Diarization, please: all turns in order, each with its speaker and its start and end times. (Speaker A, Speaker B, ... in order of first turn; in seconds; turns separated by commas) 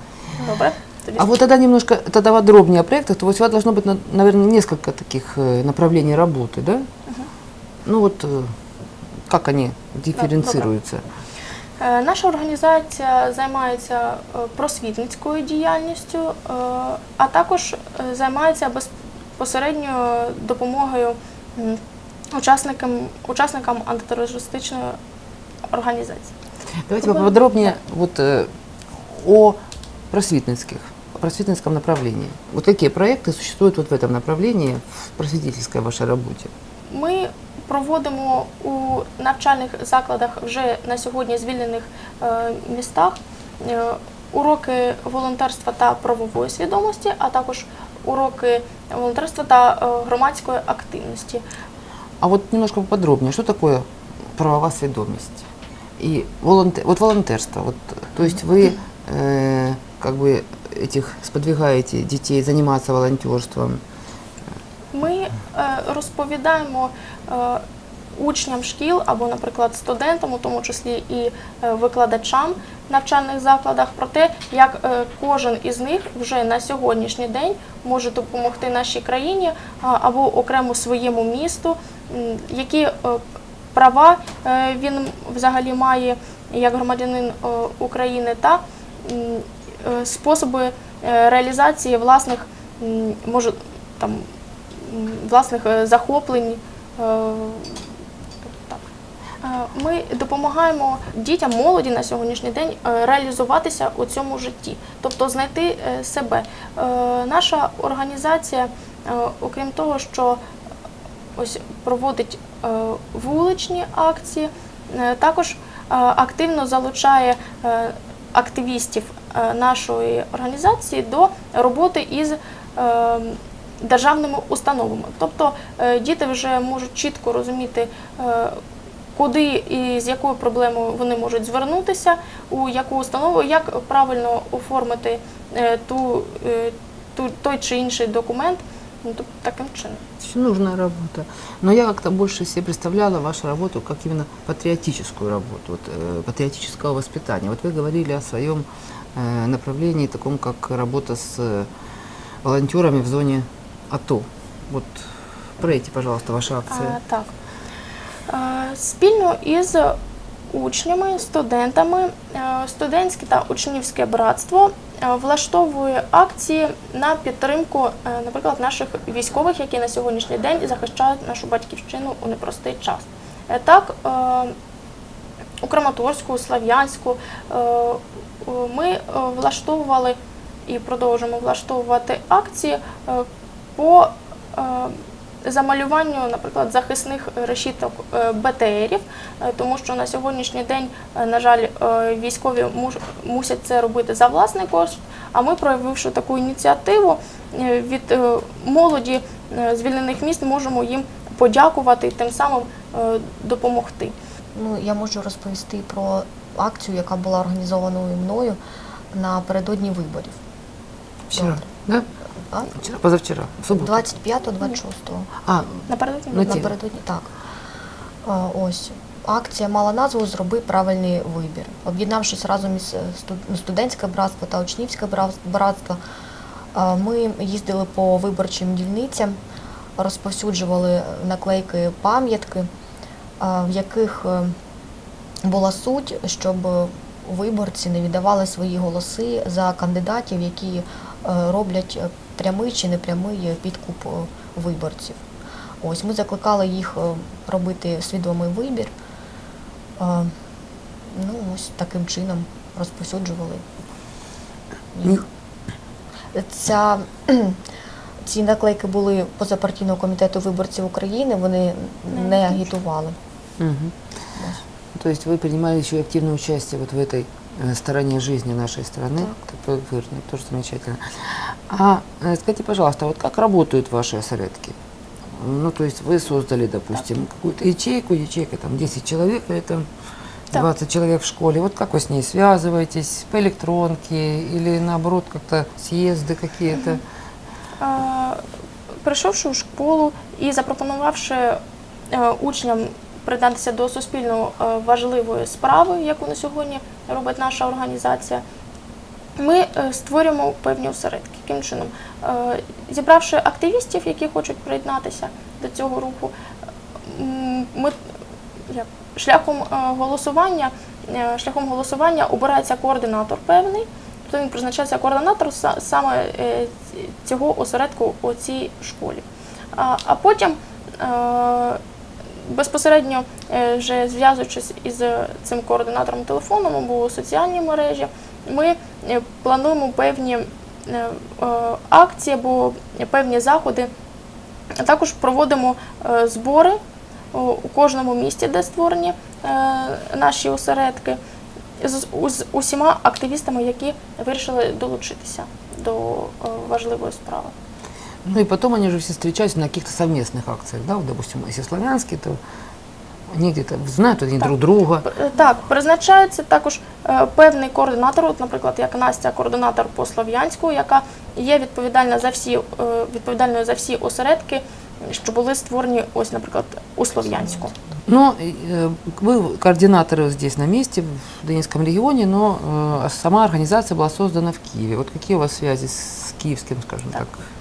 Speaker A: 0.4-1.3, Speaker B: 1.1-6.9, Speaker B: 7.8-8.5, Speaker B: 9.3-11.0, Speaker A: 10.2-10.7, Speaker A: 11.8-21.8, Speaker A: 22.3-25.0, Speaker A: 25.7-26.3, Speaker B: 26.9-29.6, Speaker A: 27.0-27.7, Speaker B: 30.1-36.5, Speaker A: 36.9-51.4, Speaker B: 52.2-55.4, Speaker B: 56.0-63.8, Speaker A: 64.9-67.6, Speaker A: 68.2-83.2, Speaker A: 83.7-97.9, Speaker A: 98.4-98.8, Speaker A: 99.4-110.4, Speaker A: 111.4-128.6, Speaker A: 129.1-140.0, Speaker B: 140.2-151.7, Speaker B: 152.4-155.1, Speaker B: 155.6-157.0, Speaker A: 156.7-157.3, Speaker A: 158.3-160.0, Speaker A: 160.5-174.5, Speaker A: 175.6-180.2, Speaker A: 180.7-204.1, Speaker C: 204.5-208.6, Speaker C: 209.1-210.4, Speaker B: 211.3-212.1, Speaker C: 211.3-211.7, Speaker C: 212.5-212.8, Speaker B: 212.7-214.0, Speaker C: 213.7-215.3, Speaker B: 215.4-216.7, Speaker A: 215.9-216.7, Speaker C: 216.4-217.3, Speaker C: 218.2-226.0, Speaker C: 226.7-229.4, Speaker C: 230.0-232.7, Speaker C: 233.4-234.5, Speaker C: 235.4-245.2, Speaker C: 245.8-248.9, Speaker C: 250.0-250.3, Speaker C: 251.1-253.6, Speaker C: 254.9-255.3, Speaker C: 256.3-257.6, Speaker C: 258.2-263.1, Speaker A: 262.1-262.6, Speaker B: 263.6-263.9, Speaker C: 264.3-264.6, Speaker B: 264.9-274.8, Speaker B: 275.3-279.9, Speaker B: 280.5-287.0, Speaker A: 287.8-288.4, Speaker A: 289.0-298.4, Speaker A: 299.4-306.3, Speaker A: 307.1-308.0, Speaker A: 308.7-321.8, Speaker A: 322.4-333.9, Speaker A: 334.8-336.8, Speaker A: 337.3-341.2, Speaker A: 341.8-347.5, Speaker B: 348.2-352.4, Speaker B: 353.3-355.1, Speaker A: 355.0-367.7, Speaker B: 368.1-377.4